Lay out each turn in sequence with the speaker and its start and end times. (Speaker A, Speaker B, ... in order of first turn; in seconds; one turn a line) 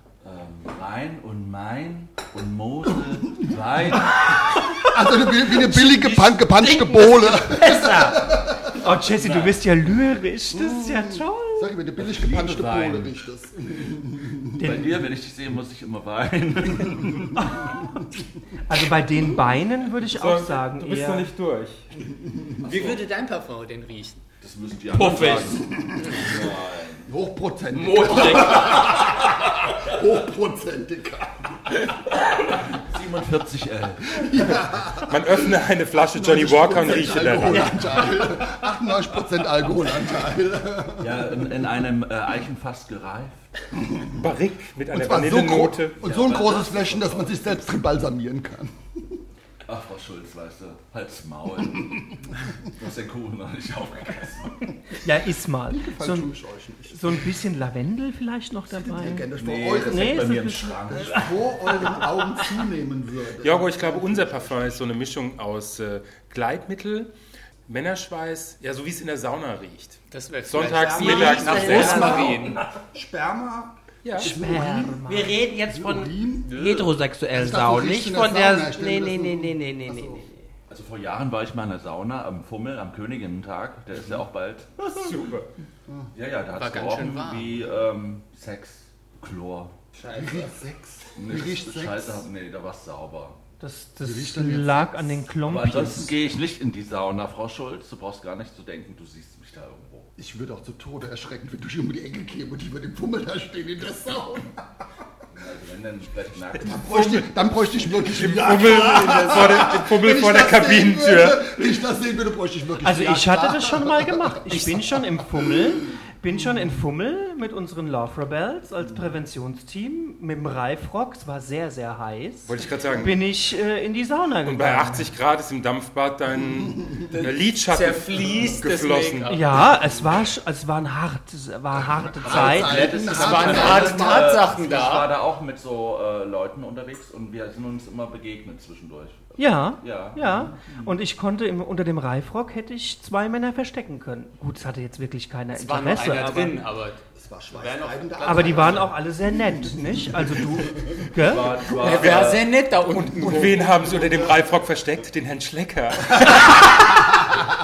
Speaker A: 0.2-4.6
Speaker B: 4.1-8.8
Speaker C: 6.7-7.4
Speaker D: 7.5-11.7
Speaker A: 9.0-9.7
Speaker B: 10.5-14.7
Speaker A: 12.0-13.2
Speaker D: 14.6-14.9
Speaker A: 14.6-17.4
Speaker D: 18.6-21.3
Speaker E: 20.0-21.9
Speaker A: 22.6-23.0
Speaker F: 22.6-24.2
Speaker A: 24.4-27.1
Speaker C: 25.0-25.6
Speaker B: 25.5-26.4
Speaker B: 27.1-31.7
Speaker C: 27.9-28.7
Speaker A: 27.9-29.0
Speaker A: 32.4-34.4
Speaker B: 34.1-35.6
Speaker E: 35.0-37.8
Speaker B: 36.1-41.4
Speaker A: 41.0-43.5
Speaker E: 44.1-46.0
Speaker B: 44.9-49.2
Speaker A: 46.0-47.5
Speaker A: 49.7-54.8
Speaker D: 55.0-56.3
Speaker B: 55.7-57.2
Speaker D: 56.9-59.3
Speaker B: 58.7-64.9
Speaker A: 59.3-61.6
Speaker D: 59.9-61.2
Speaker E: 63.4-67.1
Speaker E: 67.7-72.5
Speaker F: 70.1-72.6
Speaker C: 70.7-72.7
Speaker B: 71.7-75.1
Speaker E: 74.0-74.3
Speaker D: 74.2-75.4
Speaker C: 75.1-80.5
Speaker B: 75.7-76.6
Speaker F: 76.5-76.9
Speaker B: 77.3-80.3
Speaker A: 80.7-84.9
Speaker E: 84.8-85.5
Speaker A: 86.1-89.8
Speaker F: 86.5-87.5
Speaker B: 90.1-92.2
Speaker A: 91.2-93.4
Speaker D: 93.6-96.1
Speaker B: 94.0-95.2
Speaker A: 95.4-100.1
Speaker B: 100.2-104.6
Speaker A: 105.3-107.0
Speaker B: 106.7-115.5
Speaker E: 106.8-107.3
Speaker E: 108.0-111.4
Speaker D: 112.8-125.1
Speaker E: 122.5-123.2
Speaker E: 124.4-129.4
Speaker F: 127.2-129.7
Speaker D: 129.3-132.8
Speaker B: 132.2-134.4
Speaker A: 132.2-140.9
Speaker F: 133.0-135.1
Speaker D: 139.4-146.6
Speaker F: 145.5-147.0
Speaker B: 147.2-150.6
Speaker F: 147.5-148.9
Speaker D: 148.2-151.6
Speaker A: 151.2-152.6
Speaker F: 151.7-153.6
Speaker E: 153.1-157.2